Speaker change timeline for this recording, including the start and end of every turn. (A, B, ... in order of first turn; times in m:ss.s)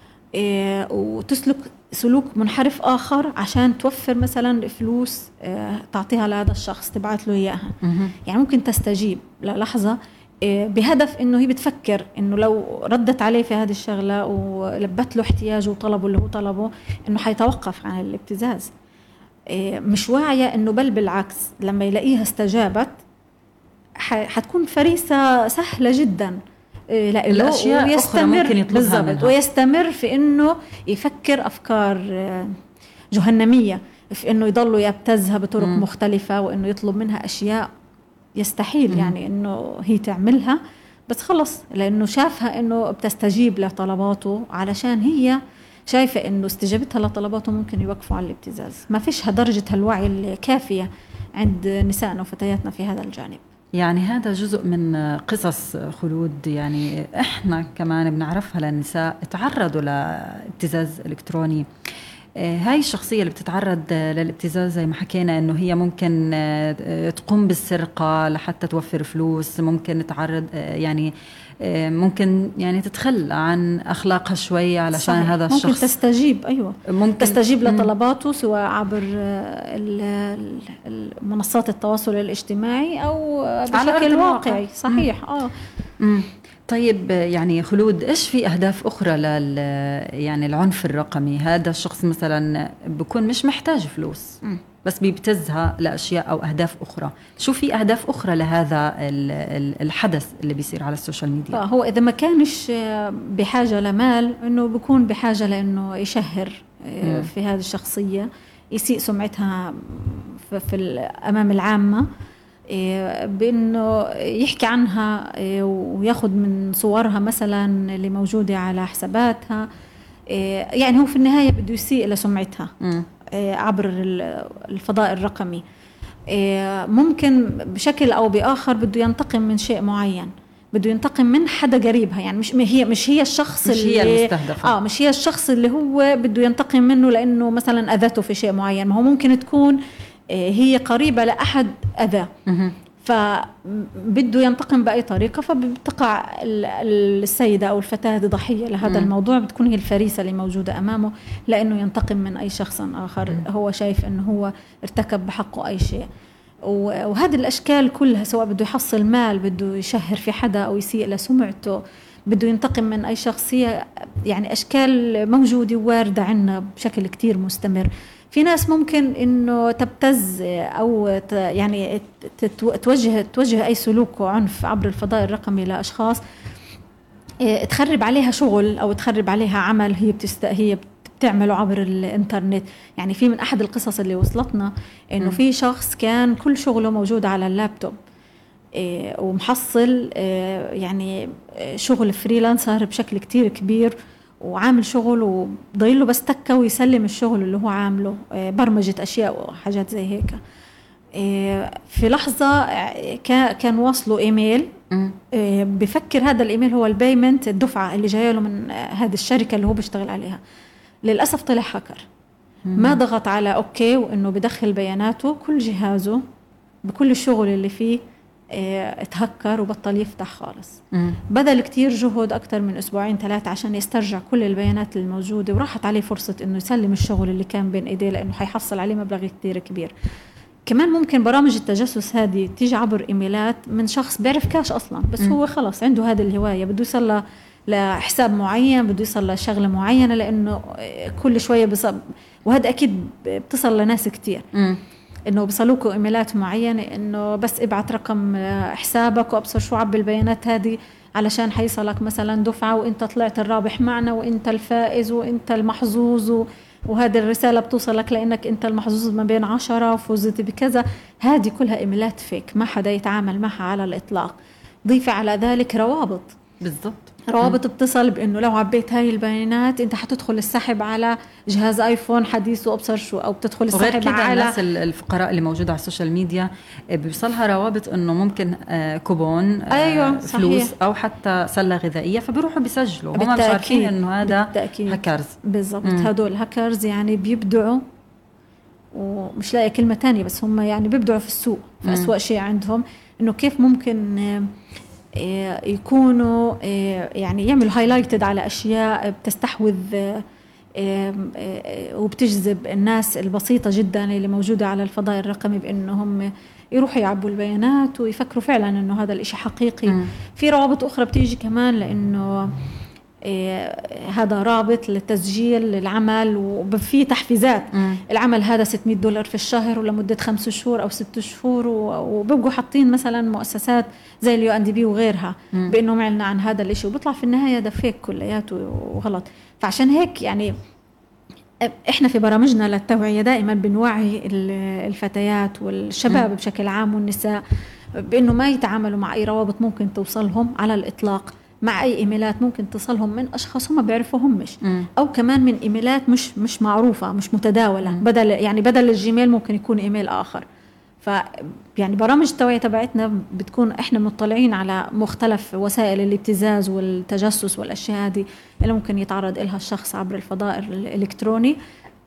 0:00.4-0:07.8 A
0:07.8-0:08.1 B
0:08.3-0:18.7 A
0:19.5-0:23.0 A
0:24.0-0:26.4 A
0:26.9-0:32.6 A
0:27.3-0:29.4 B
0:33.1-0:37.7 A
0:35.6-0:35.8 B
0:38.4-0:53.4 A
0:53.8-1:01.7 B
1:02.4-1:15.9 B
1:14.9-1:25.5 A
1:16.9-1:17.9 B
1:23.8-1:25.1 B
1:26.0-1:41.6 B
1:41.5-1:52.1 A
1:47.0-1:47.3 B
1:52.7-1:59.7 A
2:00.3-2:02.7 A
2:02.8-2:03.1 B
2:03.3-2:05.6 A
2:06.3-2:19.8 A
2:13.6-2:14.8 B
2:20.3-2:22.3 A
2:22.5-2:22.8 B
2:23.0-2:36.1 A
2:28.8-2:29.1 B
2:36.6-2:56.2 A
2:57.4-3:08.0 A
3:08.8-3:20.4 A
3:21.2-3:24.7 A
3:25.3-3:30.4 A
3:31.0-3:32.0 A
3:32.7-3:33.0 B
3:32.8-3:36.2 A
3:36.8-3:38.0 A
3:38.5-3:49.9 A
3:40.9-3:41.2 B
3:50.7-4:04.5 A
4:04.5-4:04.8 B
4:05.3-4:24.3 A
4:24.9-4:26.4 A
4:26.6-4:27.6 B
4:27.3-4:34.6 A
4:33.7-4:46.1 B
4:39.7-4:40.7 A
4:43.2-4:47.8 A
4:48.9-4:54.5 A
4:51.8-4:52.1 B
4:55.2-5:00.2 A
5:00.8-5:12.5 A
5:13.2-5:30.5 A
5:17.8-5:18.0 B
5:31.6-5:37.4 A
5:38.0-5:50.4 A
5:44.6-5:44.9 B
5:51.0-6:01.6 A